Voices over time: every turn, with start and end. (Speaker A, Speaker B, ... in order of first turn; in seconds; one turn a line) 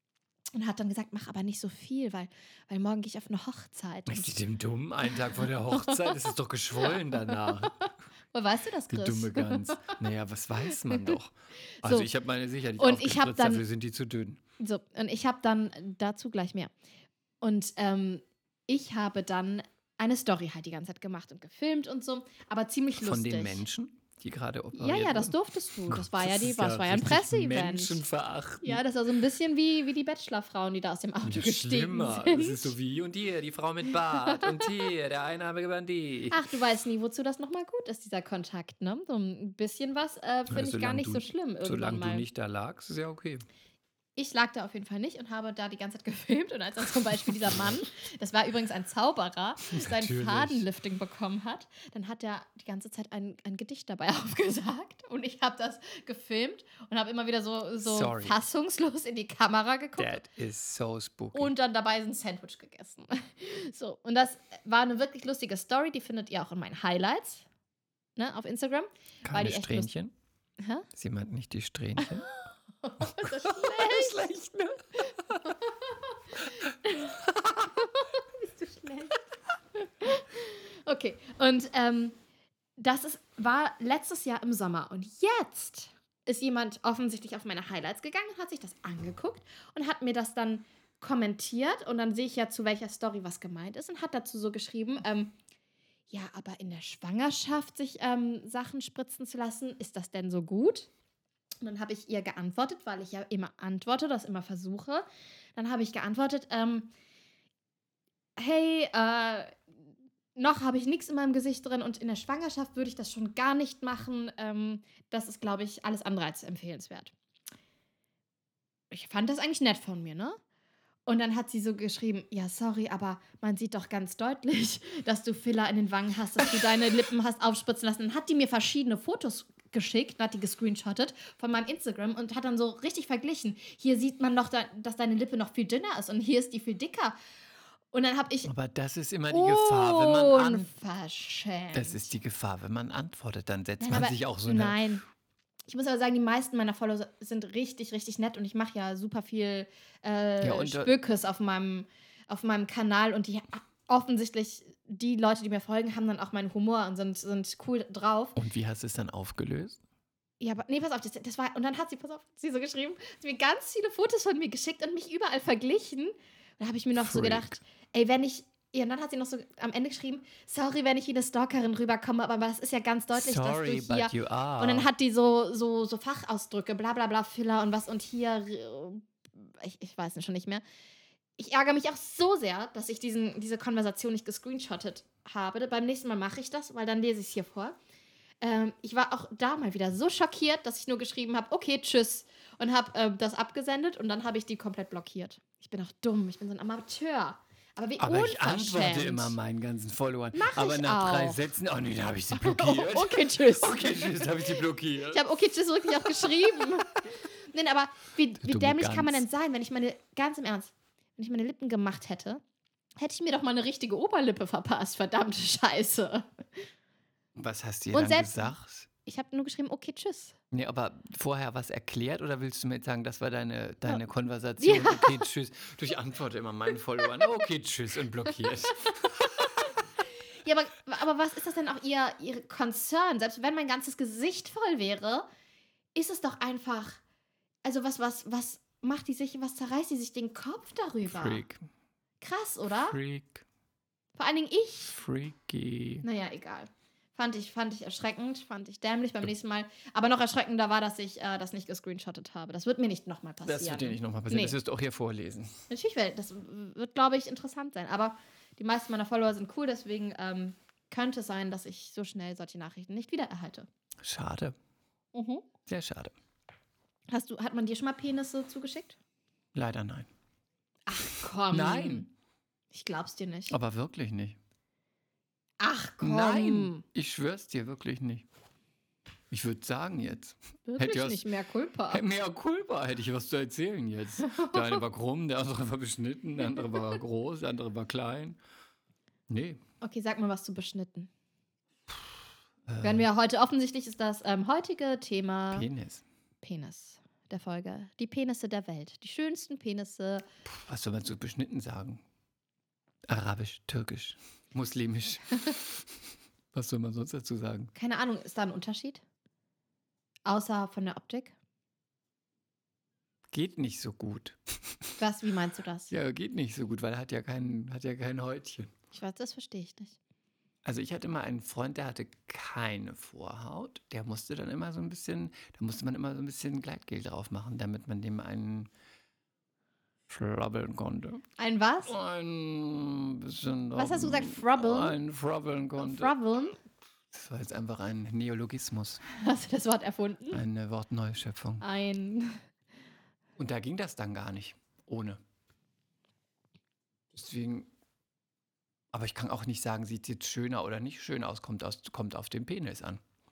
Speaker A: 0.5-4.4
Speaker B: 4.1-7.8
Speaker A: 5.4-6.1
Speaker A: 7.3-10.0
Speaker B: 8.9-14.4
Speaker A: 11.8-12.1
Speaker A: 12.8-13.6
Speaker A: 14.6-16.7
Speaker A: 17.4-23.6
Speaker B: 22.9-28.8
Speaker A: 24.7-28.0
Speaker A: 28.6-32.7
Speaker B: 31.2-36.4
Speaker A: 36.3-42.2
Speaker B: 40.5-43.5
Speaker A: 44.1-60.2
Speaker B: 49.7-50.6
Speaker B: 57.8-58.4
Speaker B: 60.0-61.5
Speaker A: 61.3-67.5
Speaker A: 68.2-69.9
Speaker B: 69.2-70.1
Speaker A: 70.6-70.8
Speaker B: 70.9-72.3
Speaker A: 72.3-74.4
Speaker B: 73.0-75.5
Speaker A: 75.0-79.2
Speaker A: 79.8-82.2
Speaker A: 82.8-95.3
Speaker A: 96.1-100.9
Speaker A: 101.6-106.9
Speaker A: 108.4-109.5
Speaker A: 110.3-117.1
Speaker A: 118.9-120.4
Speaker A: 121.0-137.1
Speaker A: 137.9-138.5
Speaker B: 138.4-140.7
Speaker A: 139.3-142.1
Speaker B: 141.7-144.9
Speaker A: 143.8-145.0
Speaker A: 145.7-158.4
Speaker B: 150.4-150.9
Speaker B: 158.3-159.8
Speaker A: 160.4-180.6
Speaker B: 166.9-167.6
Speaker B: 173.1-174.9
Speaker A: 181.4-187.8
Speaker A: 188.4-199.4
Speaker B: 198.0-205.2
Speaker A: 200.3-201.4
Speaker A: 202.3-204.5
Speaker A: 205.1-212.4
Speaker B: 206.0-206.3
Speaker B: 208.4-209.2
Speaker A: 213.0-216.7
Speaker B: 217.3-218.9
Speaker A: 217.9-220.4
Speaker B: 220.5-229.7
Speaker A: 224.6-225.2
Speaker A: 230.4-235.3
Speaker A: 235.9-237.0
Speaker A: 237.6-241.4
Speaker B: 241.1-241.7
Speaker A: 242.2-243.0
Speaker B: 242.8-243.4
Speaker A: 244.2-244.9
Speaker B: 244.9-246.1
Speaker A: 246.0-254.6
Speaker B: 253.4-255.6
Speaker A: 255.7-263.7
Speaker B: 264.0-264.6
Speaker A: 265.1-265.4
Speaker B: 265.7-266.1
Speaker A: 267.1-269.0
Speaker B: 269.5-270.1
Speaker A: 270.9-272.1
Speaker B: 271.5-272.1
Speaker A: 272.7-273.6
Speaker B: 273.5-274.4
Speaker A: 275.6-276.8
Speaker B: 276.0-278.2
Speaker B: 279.3-281.2
Speaker A: 280.6-282.0
Speaker B: 281.9-288.4
Speaker A: 284.2-284.8
Speaker B: 289.3-289.6
Speaker A: 289.8-291.1
Speaker B: 292.6-293.1
Speaker A: 292.8-295.7
Speaker B: 295.5-296.0
Speaker A: 296.4-300.2
Speaker B: 300.4-302.0
Speaker B: 303.1-305.8
Speaker B: 306.5-307.7
Speaker A: 307.7-309.0
Speaker A: 310.2-311.3
Speaker B: 313.3-314.9
Speaker A: 315.0-315.9
Speaker B: 315.9-318.7
Speaker A: 318.9-320.0
Speaker B: 320.6-328.7
Speaker B: 330.1-331.2
Speaker A: 331.4-331.9
Speaker B: 331.9-336.1
Speaker A: 333.7-334.9
Speaker A: 335.8-336.6
Speaker B: 337.1-339.0
Speaker A: 339.1-340.4
Speaker B: 340.3-341.6
Speaker A: 341.6-342.4
Speaker B: 343.4-345.2
Speaker B: 347.1-347.7
Speaker B: 348.9-353.0